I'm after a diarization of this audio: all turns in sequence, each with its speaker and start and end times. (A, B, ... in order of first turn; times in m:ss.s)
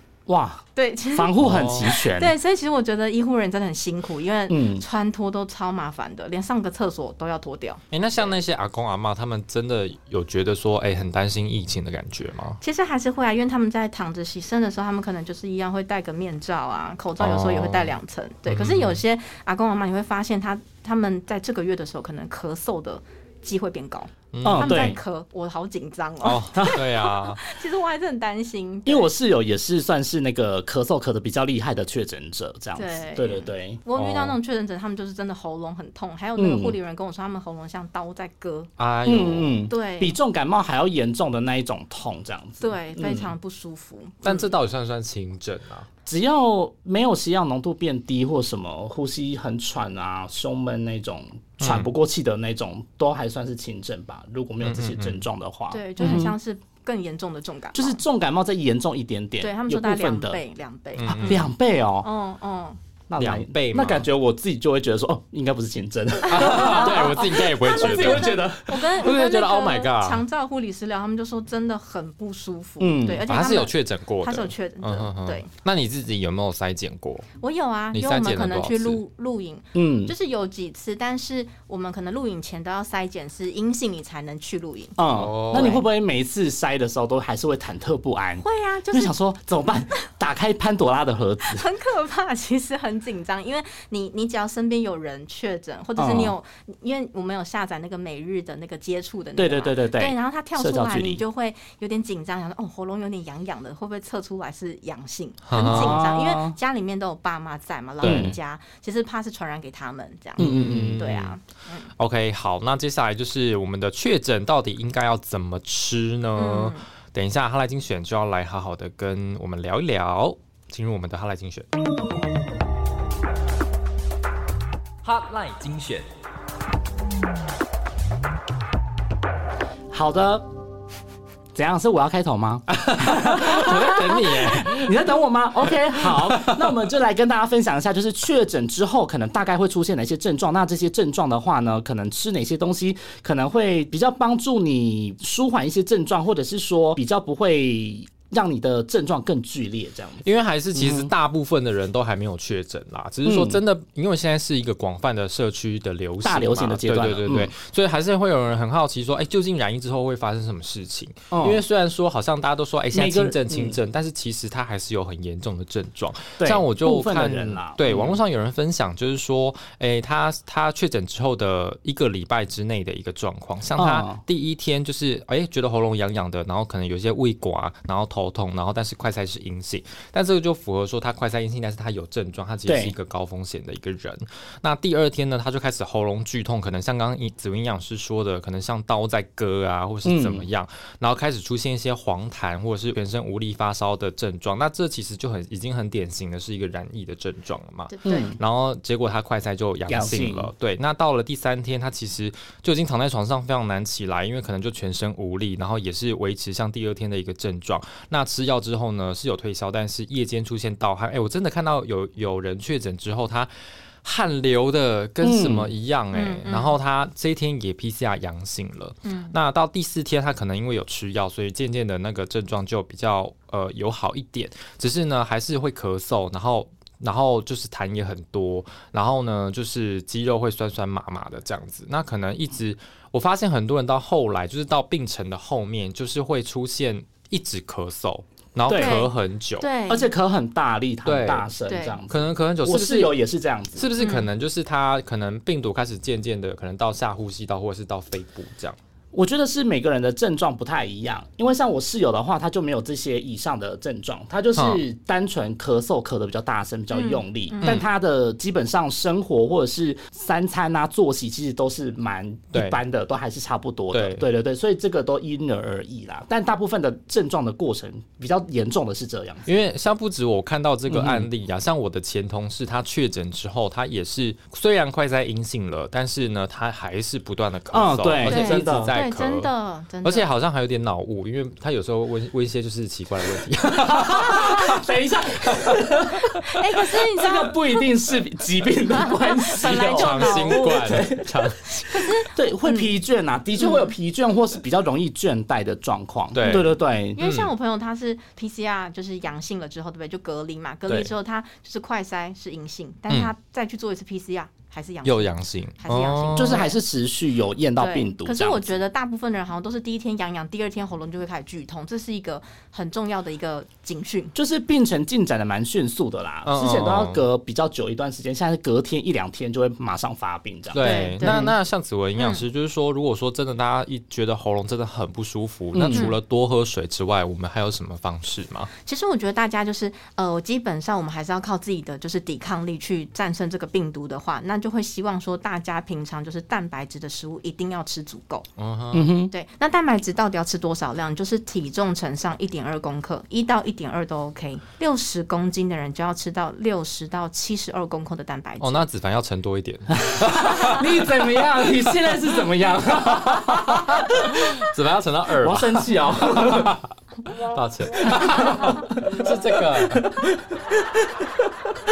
0:00.3-0:02.4 A
0:00.8-0:07.8 B
0:01.4-0:01.9 C
0:04.5-0:04.8 A
0:07.9-0:12.6 C
0:12.6-0:29.1 B
0:17.2-0:19.0 C
0:24.3-0:25.0 C
0:24.4-0:25.0 A
0:26.2-0:27.5 C
0:28.9-0:33.8 A
0:32.8-0:38.7 B
0:33.9-0:34.4 C
0:36.4-0:36.8 A
0:38.8-0:39.6 C
0:39.1-0:43.3 A
0:39.7-0:40.2 B
0:42.6-0:44.5 B
0:44.2-0:45.9 C
0:46.1-0:56.4 A
0:51.6-0:51.9 C
0:54.6-0:55.2 C
0:55.7-0:58.0 B
0:56.0-0:56.3 C
0:57.7-1:00.4 A
0:59.4-1:01.5 B
1:01.0-1:01.5 C
1:01.2-1:02.1 A
1:02.0-1:02.8 B
1:03.1-1:08.8 A
1:03.2-1:04.1 C
1:06.2-1:15.5 B
1:06.3-1:10.2 C
1:12.8-1:13.2 A
1:13.3-1:17.3 C
1:17.4-1:25.0 B
1:17.9-1:19.0 C
1:19.7-1:20.1 A
1:25.0-1:31.6 A
1:25.1-1:25.8 C
1:25.5-1:25.8 B
1:28.4-1:29.2 B
1:31.4-1:51.9 B
1:36.0-1:36.4 A
1:39.4-1:41.2 A
1:45.5-1:46.0 C
1:45.6-1:46.6 A
1:48.0-1:48.4 C
1:48.0-1:48.4 A
1:50.4-1:51.0 A
1:50.4-1:51.4 C
1:52.0-2:01.7 C
1:56.4-1:56.8 B
2:05.0-2:06.1 C
2:09.9-2:10.4 A
2:11.6-2:31.1 A
2:12.8-2:14.9 C
2:15.8-2:16.8 C
2:30.2-3:33.5 C
2:33.2-2:33.6 A
2:36.2-2:37.5 A
2:41.3-2:41.6 A
2:42.9-2:43.8 A
2:46.4-2:48.2 A
2:53.8-2:54.2 A
3:02.7-3:02.9 A
3:10.0-3:10.5 A
3:17.9-3:18.3 B
3:18.0-3:18.4 A
3:19.9-3:20.5 A
3:34.0-3:59.7 C
3:35.2-3:35.7 A
3:36.1-3:36.8 B
3:39.0-3:39.4 B
3:58.7-3:59.0 A
3:58.7-4:00.1 B
3:59.9-4:03.9 A
4:01.0-4:01.5 C
4:01.7-4:02.0 B
4:02.1-4:03.2 C
4:03.8-4:08.8 C
4:04.0-4:04.3 B
4:09.1-4:29.5 A
4:14.6-4:14.8 C
4:16.9-4:17.8 B
4:22.5-4:22.8 C
4:23.9-4:24.3 C
4:29.5-4:39.5 C
4:30.9-4:31.3 A
4:37.7-4:38.9 A
4:38.2-4:40.3 B
4:40.0-4:44.8 C
4:43.6-4:51.3 A
4:45.5-4:46.5 C
4:46.5-4:47.9 B
4:49.0-4:51.0 B
4:49.8-4:52.2 C
4:51.8-4:52.9 B
4:52.2-4:57.2 A
4:53.6-4:53.9 B
4:56.3-4:57.5 C
4:57.2-5:06.8 B
5:05.0-5:06.7 C
5:06.4-5:08.8 A
5:07.8-5:14.3 B
5:14.4-5:21.5 A
5:16.4-5:17.2 C
5:20.7-5:28.7 C
5:20.8-5:21.5 B
5:22.2-5:22.4 B
5:25.7-5:26.1 A
5:28.8-5:38.5 B
5:38.6-5:39.1 C
5:38.9-5:39.3 A
5:39.3-5:48.9 B
5:48.6-5:52.2 C
5:49.9-5:54.5 A
5:53.1-6:00.2 C
5:55.4-5:56.8 A
5:58.0-6:01.1 A